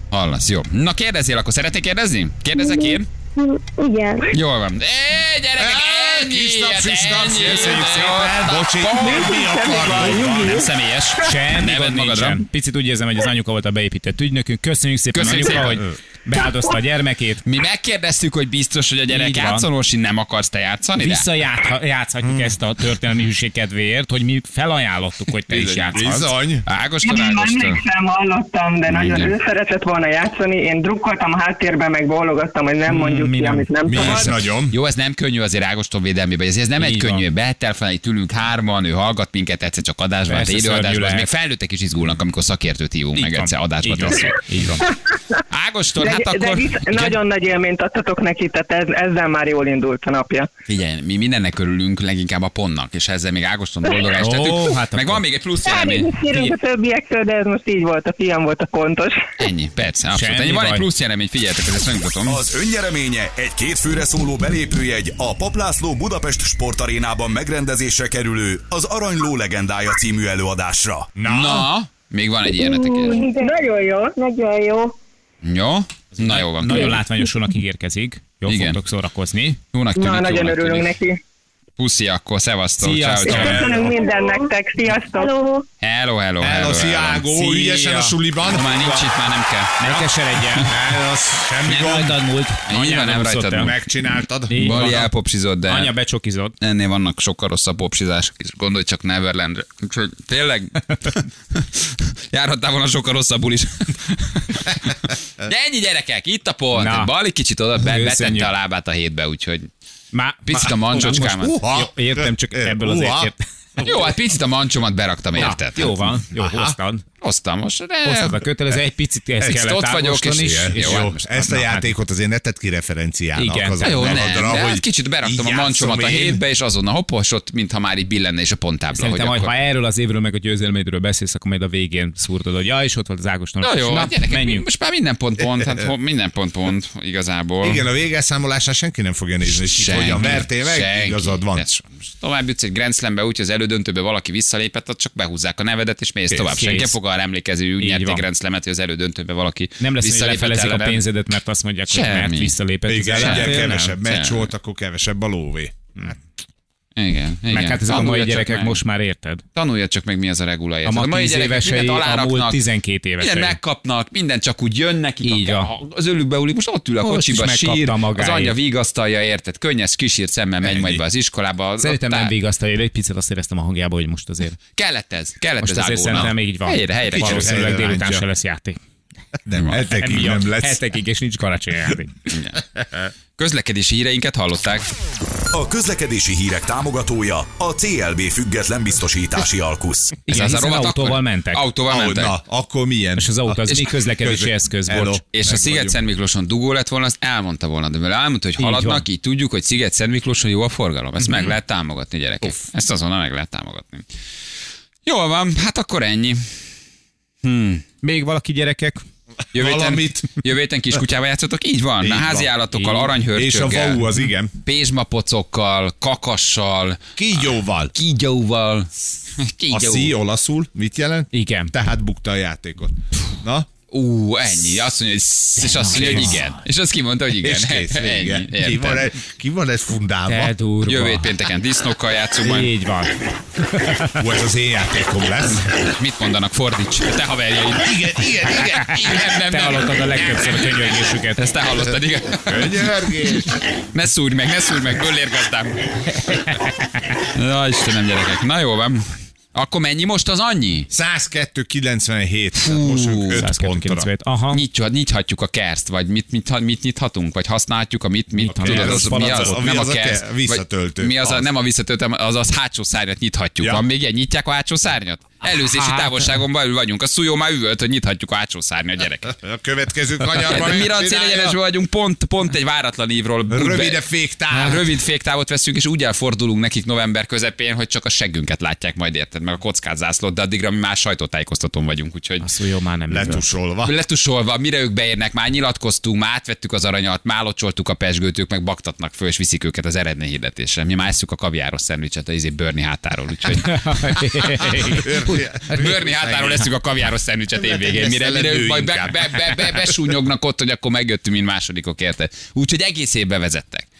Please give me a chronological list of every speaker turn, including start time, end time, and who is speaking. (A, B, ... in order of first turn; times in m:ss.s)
0:00.1-0:03.1 A
0:02.6-0:04.3 B
0:04.3-0:12.4 A
0:05.6-0:10.6 C
0:09.0-0:10.7 D
0:11.2-0:17.4 E
0:15.1-0:15.9 A
0:17.4-0:21.3 A
0:19.1-0:19.6 E
0:21.0-0:26.3 E
0:22.2-0:22.5 C
0:25.5-0:27.8 A
0:25.9-0:26.6 C
0:27.0-0:34.3 D
0:28.9-0:29.3 A
0:32.9-0:33.7 E
0:33.8-0:34.8 C
0:33.9-0:44.4 A
0:36.8-0:37.2 E
0:40.3-0:41.3 E
0:43.1-0:44.9 E
0:45.5-0:47.2 A
0:46.0-0:50.5 D
0:50.7-0:56.1 A
0:54.2-0:55.2 E
0:55.6-0:59.2 D
0:56.2-0:56.6 E
0:59.4-1:02.4 A
1:00.1-1:00.8 E
1:02.2-1:11.1 F
1:11.1-1:11.7 C
1:11.2-1:13.2 A
1:12.5-1:14.9 B
1:13.0-1:14.1 D
1:15.4-1:17.0 A
1:16.2-1:19.6 E
1:18.4-1:18.8 A
1:19.7-1:20.9 A
1:20.0-1:21.2 D
1:21.8-1:23.7 A
1:22.8-1:23.7 E
1:23.2-1:25.3 D
1:23.4-1:23.9 C
1:23.7-1:24.5 B
1:25.1-1:25.6 B
1:25.8-1:30.7 A
1:26.4-1:29.1 C
1:29.8-1:30.7 E
1:30.7-1:32.2 C
1:31.6-1:33.7 E
1:32.7-1:33.8 A
1:33.5-1:35.0 C
1:34.5-1:35.1 E
1:34.6-1:35.9 A
1:35.7-1:36.5 E
1:36.6-1:49.7 A
1:46.7-1:47.1 E
1:47.8-1:48.5 E
1:50.1-1:53.9 E
1:50.4-1:51.6 A
1:50.6-1:54.1 C
1:53.8-1:55.9 A
1:55.4-1:57.0 E
1:56.3-1:56.8 C
1:57.2-1:58.4 A
1:58.0-2:01.9 E
1:59.4-2:01.3 A
2:00.0-2:06.4 C
2:03.4-2:04.4 E
2:03.8-2:09.5 A
2:08.9-2:14.6 E
2:13.6-2:17.8 A
2:17.6-2:21.6 C
2:19.5-2:31.0 A
2:26.3-2:27.0 E
2:27.8-2:28.2 E
2:29.8-2:34.0 E
2:31.9-2:32.5 A
2:32.9-2:36.1 C
2:33.2-2:34.5 A
2:37.0-2:38.8 A
2:37.5-2:39.4 E
2:39.5-2:42.6 A
2:40.8-2:43.6 E
2:43.2-2:52.3 A
2:45.2-2:45.7 E
2:47.0-2:48.5 E
2:50.6-2:51.0 C
2:51.8-2:54.6 E
2:54.8-2:57.6 A
2:55.6-2:58.8 E
2:57.0-2:58.3 C
2:59.4-3:00.8 C
2:59.5-2:59.8 A
2:59.9-3:02.1 E
3:02.3-3:02.6 A
3:03.4-3:04.9 A
3:05.5-3:10.2 F
3:10.3-3:11.6 E
3:10.3-3:12.4 A
3:11.9-3:16.0 C
3:13.2-3:15.2 E
3:15.3-3:24.0 A
3:18.6-3:19.0 E
3:25.0-3:26.5 A
3:27.4-3:27.8 A
3:28.0-3:29.0 E
3:29.5-3:30.3 C
3:29.5-3:34.1 A
3:32.0-3:34.5 C
3:34.6-3:40.1 A
3:37.2-3:37.9 C
3:39.7-3:43.7 C
3:41.3-3:41.7 E
3:43.9-3:49.1 A
3:45.6-3:46.4 E
3:46.0-3:46.3 C
3:47.4-3:50.5 C
3:50.3-3:51.3 E
3:50.8-3:52.7 A
3:52.4-3:54.2 E
3:54.0-3:55.7 C
3:55.7-4:02.8 A
3:57.7-3:59.2 C
3:59.3-4:01.4 E
4:02.4-4:03.7 C
4:03.8-4:06.3 A
4:06.2-4:06.5 E
4:07.2-4:10.9 A
4:10.9-4:14.1 C
4:12.6-4:13.5 A
4:13.4-4:14.6 E
4:14.5-4:29.4 A
4:18.4-4:21.5 C
4:18.5-4:19.7 E
4:25.5-4:26.3 E
4:29.3-4:31.6 C
4:30.4-4:42.5 A
4:33.5-4:34.9 C
4:42.4-4:43.4 E
4:43.1-4:43.9 C
4:43.8-4:55.0 A
4:53.5-4:55.8 E
4:54.8-4:56.7 C
4:55.7-5:03.9 A
4:57.5-5:00.2 C